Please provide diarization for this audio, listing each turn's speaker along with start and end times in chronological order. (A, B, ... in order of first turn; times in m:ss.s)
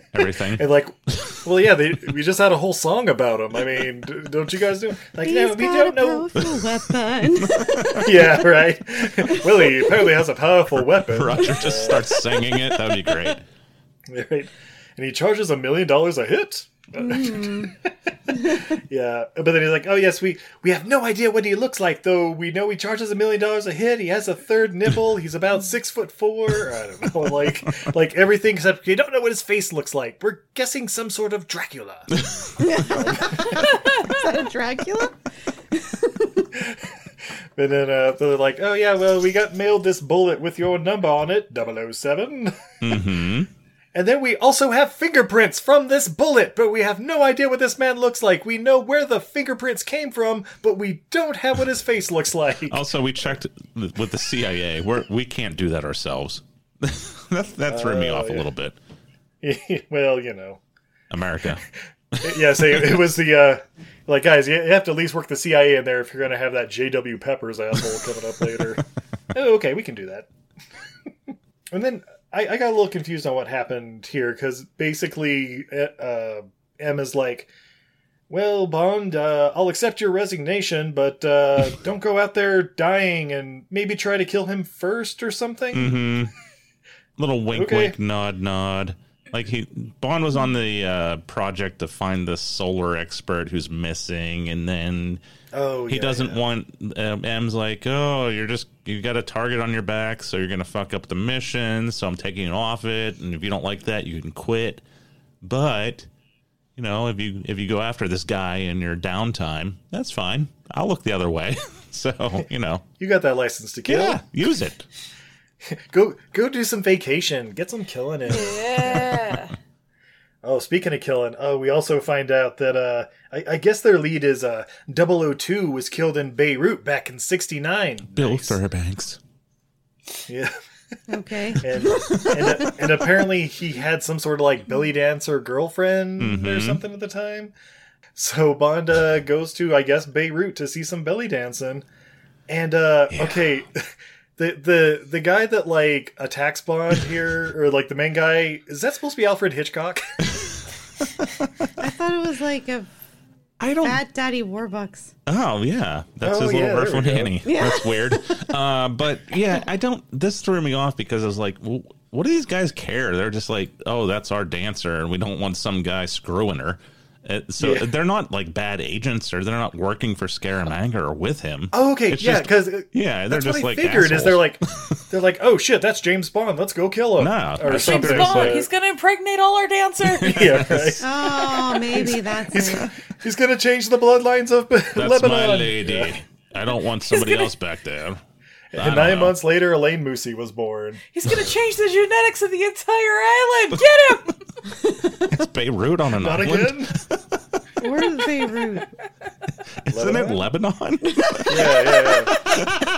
0:00.1-0:00.7 A
0:00.6-0:06.3 B
0:05.2-0:08.5 C
0:07.4-0:08.0 A
0:08.0-0:12.2 B
0:09.3-0:10.2 C
0:10.8-0:13.4 A
0:14.1-0:32.3 B
0:17.0-0:17.7 C
0:18.3-0:18.7 C
0:32.6-0:35.2 C
0:32.9-0:33.7 B
0:35.7-0:36.5 C
0:36.5-0:36.8 B
0:37.6-0:42.8 B
0:42.8-0:43.5 A
0:43.9-0:52.8 B
0:52.7-0:58.8 A
0:57.7-0:58.5 B
0:59.4-1:00.6 B
1:01.1-1:01.6 A
1:02.2-1:03.0 A
1:02.2-1:10.3 B
1:11.3-1:17.5 B
1:18.3-1:26.0 B
1:25.7-1:26.3 A
1:27.2-1:35.2 A
1:27.5-1:28.0 B
1:35.5-1:36.4 B
1:35.9-1:44.8 A
1:45.4-1:46.1 A
1:46.8-1:52.8 A
1:53.0-1:54.2 B
1:53.8-1:54.8 A
1:55.7-1:59.2 B
1:58.3-1:59.5 D
2:00.4-2:08.6 B
2:08.2-2:09.2 A
2:10.3-2:10.5 B
2:11.1-2:13.3 C
2:11.6-2:17.5 B
2:16.2-2:16.8 A
2:18.2-2:21.8 B
2:22.5-2:23.9 B
2:23.1-2:23.5 A
2:24.4-2:30.0 B
2:31.8-2:32.9 C
2:33.6-2:34.0 A
2:33.8-2:35.1 C
2:35.3-2:55.0 A
2:36.2-2:37.4 B
2:37.4-2:38.5 C
2:47.6-2:47.9 B
2:51.7-2:58.7 B
2:57.2-2:58.7 A
2:57.6-3:00.4 D
3:00.2-3:01.0 A
3:00.2-3:06.1 B
3:01.0-3:02.9 C
3:05.0-3:08.2 A
3:07.1-3:07.5 D
3:08.7-3:11.0 B
3:08.8-3:09.4 A
3:11.1-3:14.4 D
3:14.8-3:15.4 C
3:15.3-3:17.2 A
3:16.1-3:17.0 B
3:17.8-3:18.9 C
3:19.9-3:21.7 A
3:19.9-3:20.4 B
3:21.1-3:22.3 C
3:21.5-3:22.4 B